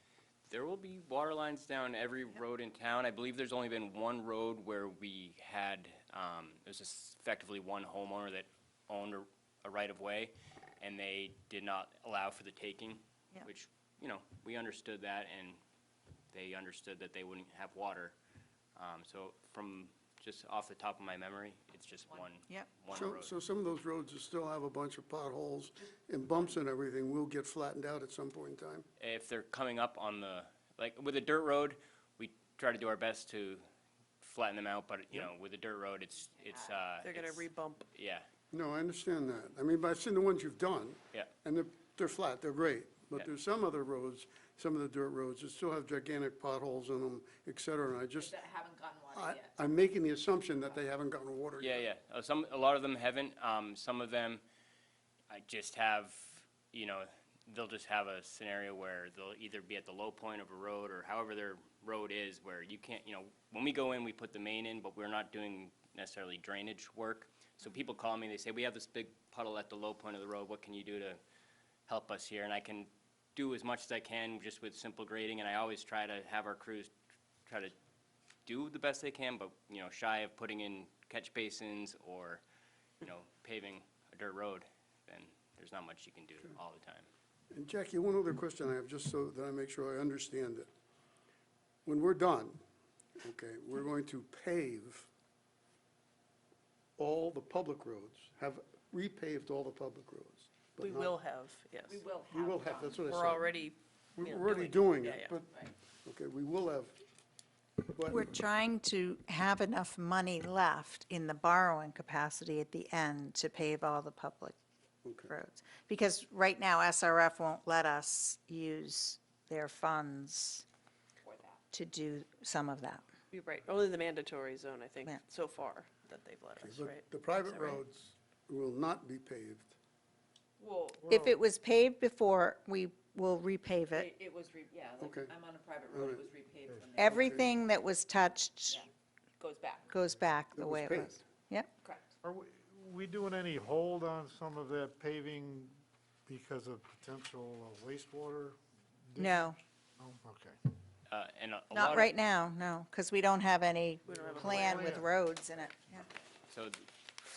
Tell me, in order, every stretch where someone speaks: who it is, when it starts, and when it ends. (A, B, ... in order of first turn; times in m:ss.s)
0:00.5-0:15.6 A
0:16.3-0:18.1 A
0:18.8-0:23.3 A
0:22.5-0:22.7 B
0:22.9-0:28.8 C
0:29.0-0:33.6 A
0:34.2-0:38.3 A
0:37.0-0:37.9 D
0:38.5-0:48.4 C
0:48.1-0:49.5 E
0:49.1-0:51.8 C
0:51.6-0:54.4 A
0:55.3-1:11.2 A
1:11.9-1:16.9 A
1:17.4-1:17.7 A
1:18.4-1:22.4 A
1:23.0-1:27.1 A
1:27.5-1:30.7 C
1:31.8-1:32.6 C
1:33.2-1:35.1 C
1:37.0-1:41.1 C
1:40.8-1:42.0 D
1:41.8-1:43.2 E
1:42.2-1:43.5 C
1:43.0-1:45.4 D
1:44.2-1:47.0 C
1:47.9-1:48.2 C
1:48.1-1:54.5 B
1:55.0-1:55.3 C
1:55.2-2:00.6 B
2:01.2-2:01.6 E
2:01.7-2:03.0 B
2:03.3-2:07.8 D
2:06.6-2:09.7 C
2:10.6-2:11.2 E
2:11.0-2:11.4 F
2:11.1-2:14.1 B
2:13.9-2:17.3 E
2:15.0-2:15.4 C
2:15.9-2:16.3 C
2:17.0-2:18.8 B
2:17.0-2:17.5 C
2:18.7-2:19.9 E
2:19.9-2:21.7 B
2:20.6-2:21.2 C
2:21.8-2:22.1 E
2:22.2-2:30.6 F
2:29.2-2:29.6 B
2:31.1-2:32.1 A
2:31.7-2:36.1 B
2:34.1-2:35.1 F
2:34.1-2:34.9 D
2:36.5-2:36.9 A